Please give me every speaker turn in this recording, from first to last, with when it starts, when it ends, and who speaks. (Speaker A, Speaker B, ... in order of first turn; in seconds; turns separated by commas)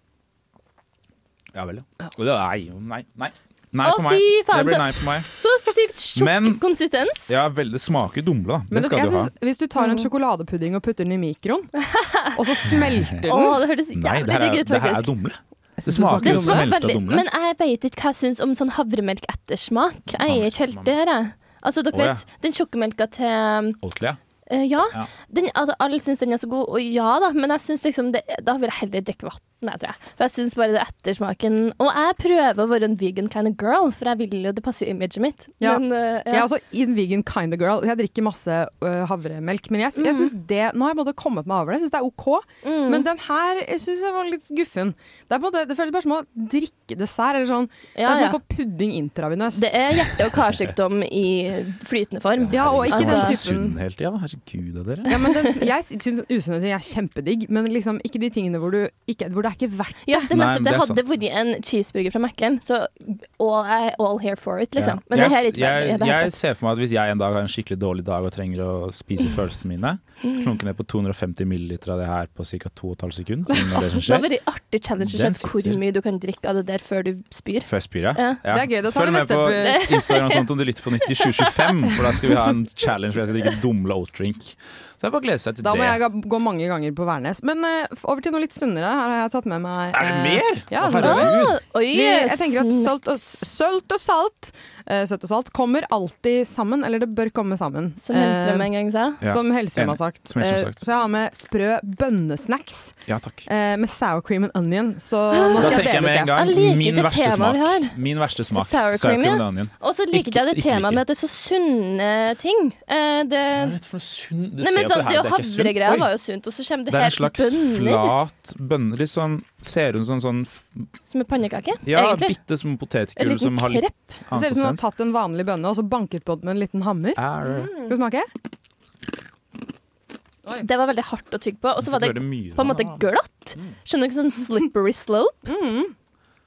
Speaker A: 1.5-5.3, Speaker B: 3.8-7.3, Speaker A: 6.1-6.6, Speaker A: 7.3-9.3, Speaker C: 8.7-11.7, Speaker B: 9.8-10.1, Speaker B: 11.8-12.3, Speaker C: 12.3-13.6, Speaker A: 12.7-13.3, Speaker B: 13.2-15.1, Speaker A: 13.9-17.2, Speaker C: 15.8-16.7, Speaker B: 16.2-23.8, Speaker A: 20.1-20.9, Speaker A: 21.9-22.2, Speaker A: 23.8-24.2, Speaker B: 24.5-36.5, Speaker C: 35.6-49.9, Speaker B: 40.0-40.3, Speaker B: 42.6-43.0, Speaker B: 48.0-48.4, Speaker B: 49.5-53.4, Speaker A: 52.4-55.2, Speaker C: 52.5-53.8, Speaker C: 55.1-60.3, Speaker B: 60.1-66.4, Speaker A: 60.3-61.1, Speaker A: 64.8-74.3, Speaker B: 73.8-78.4, Speaker A: 75.0-75.8, Speaker A: 77.6-86.0, Speaker C: 78.5-79.8, Speaker B: 79.6-80.5, Speaker B: 81.2-81.9, Speaker C: 85.6-98.7, Speaker A: 89.9-91.6, Speaker B: 91.0-92.9, Speaker B: 98.0-99.2, Speaker A: 99.2-100.8, Speaker C: 99.2-106.4, Speaker A: 103.1-103.5, Speaker B: 105.3-108.0, Speaker A: 105.6-111.0, Speaker B: 108.5-113.8, Speaker A: 113.5-116.1, Speaker B: 114.6-118.1, Speaker A: 116.9-120.9, Speaker B: 121.1-122.4, Speaker A: 121.8-124.8, Speaker B: 123.2-124.2, Speaker C: 124.3-127.2, Speaker A: 127.2-127.7, Speaker B: 127.5-127.9, Speaker C: 127.8-128.3, Speaker B: 130.6-135.5, Speaker A: 131.8-133.8, Speaker C: 135.5-135.9